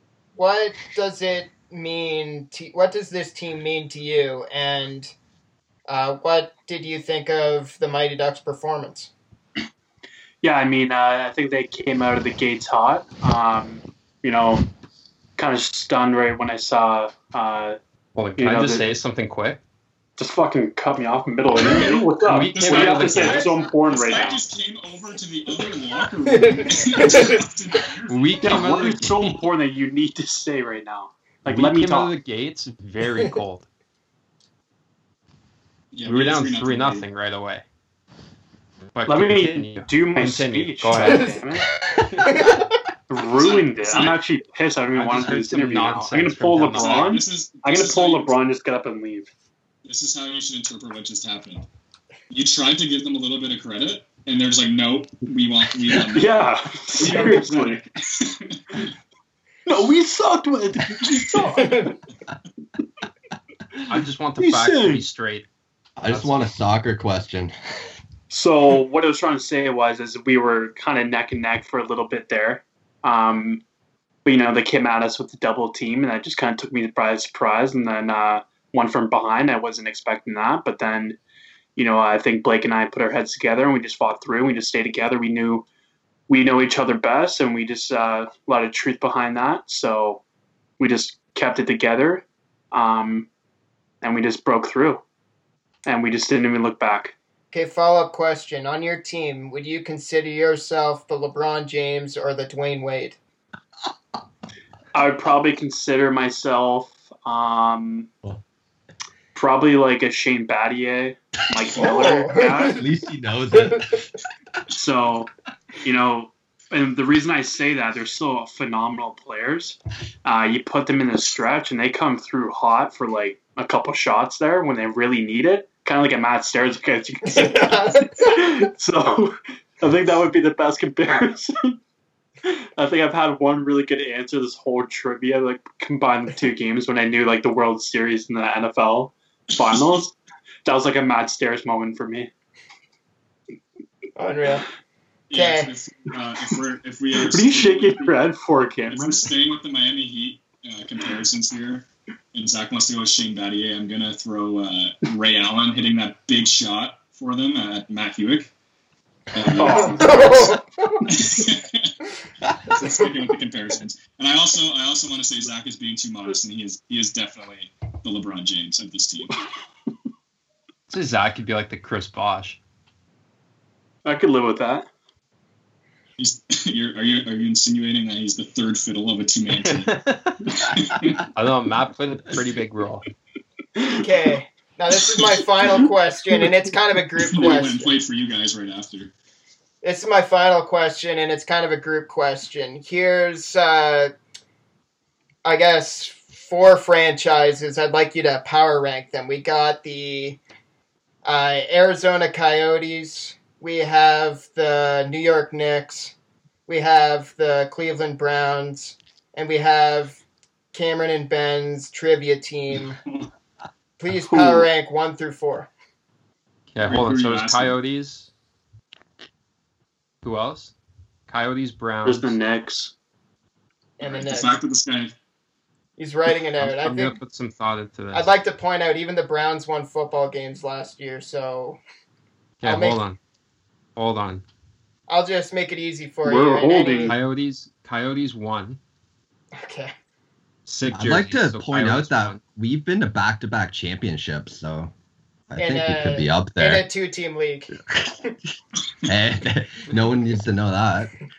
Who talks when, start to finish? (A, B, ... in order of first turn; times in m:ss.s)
0:00.4-0:05.1 A
0:05.9-0:09.1 A
0:10.4-0:14.7 B
0:15.4-0:17.8 B
0:18.2-0:19.6 C
0:18.4-0:18.9 B
0:20.2-0:24.4 B
0:21.5-0:28.9 D
0:22.2-0:23.6 C
0:26.3-0:27.4 A
0:28.1-0:29.4 C
0:28.4-0:32.2 B
0:31.5-0:33.7 C
0:35.9-0:37.1 D
0:36.0-0:37.6 C
0:38.9-0:41.6 C
0:39.1-0:41.7 B
0:41.0-0:41.4 A
0:42.1-0:42.5 C
0:42.2-0:42.6 A
0:43.1-0:49.3 B
0:43.2-0:44.2 D
0:44.9-0:47.2 C
0:46.7-0:48.4 D
0:49.8-0:51.7 D
0:52.3-0:58.9 D
0:56.1-0:57.8 B
0:59.7-1:01.9 B
1:01.1-1:01.8 D
1:01.6-1:01.9 A
1:03.9-1:05.5 C
1:04.4-1:05.0 B
1:06.0-1:07.5 E
1:06.1-1:06.4 C
1:08.3-1:13.6 B
1:14.2-1:21.2 B
1:21.8-1:25.7 B
1:26.3-1:30.2 B
1:30.8-1:33.3 B
1:34.0-1:35.0 B
1:35.9-1:37.2 B
1:37.5-1:43.2 A
1:44.9-1:48.1 B
1:49.4-1:52.8 B
1:51.8-1:52.8 A
1:52.6-1:53.9 E
1:53.5-1:53.8 A
1:54.7-1:55.3 B
1:55.8-2:11.8 B
2:07.3-2:08.4 A
2:12.5-2:20.1 B
2:19.5-2:19.8 D
2:20.6-2:22.3 B
2:24.2-2:24.7 A
2:25.3-2:28.4 D
2:25.3-2:25.7 A
2:27.2-2:29.3 B
2:28.9-2:38.5 D
2:39.3-2:40.2 D
2:39.5-2:40.6 B
2:39.7-2:41.1 A
2:41.0-2:41.9 D
2:42.5-2:49.4 D
2:50.9-2:52.6 C
2:54.0-2:54.9 B
2:56.2-2:59.9 D
2:59.5-3:00.5 C
3:00.5-3:01.3 D
3:01.3-3:03.1 C
3:04.0-3:07.9 A
3:07.2-3:09.1 D
3:09.8-3:14.1 A
3:15.4-3:20.4 A
3:21.2-3:26.1 A
3:26.7-3:30.2 A
3:30.7-3:33.0 A
3:34.0-3:35.7 A
3:34.3-3:34.7 B
3:36.7-3:38.3 C
3:36.8-3:37.8 D
3:40.2-3:40.7 C
3:41.3-3:42.4 C
3:42.0-3:42.9 B
3:44.0-3:44.5 A
3:44.0-3:45.1 D
3:46.0-3:47.2 A
3:46.6-3:48.3 C
3:48.1-3:51.8 A
3:52.6-3:53.2 C
3:52.6-3:53.0 A
3:54.0-3:54.4 C
3:55.1-3:57.2 A
3:56.3-3:57.2 B
3:57.0-3:58.8 C
3:59.6-3:59.9 A
4:00.7-4:02.4 C
4:00.9-4:04.9 E
4:05.5-4:06.9 E
4:05.6-4:07.8 A
4:09.0-4:11.1 E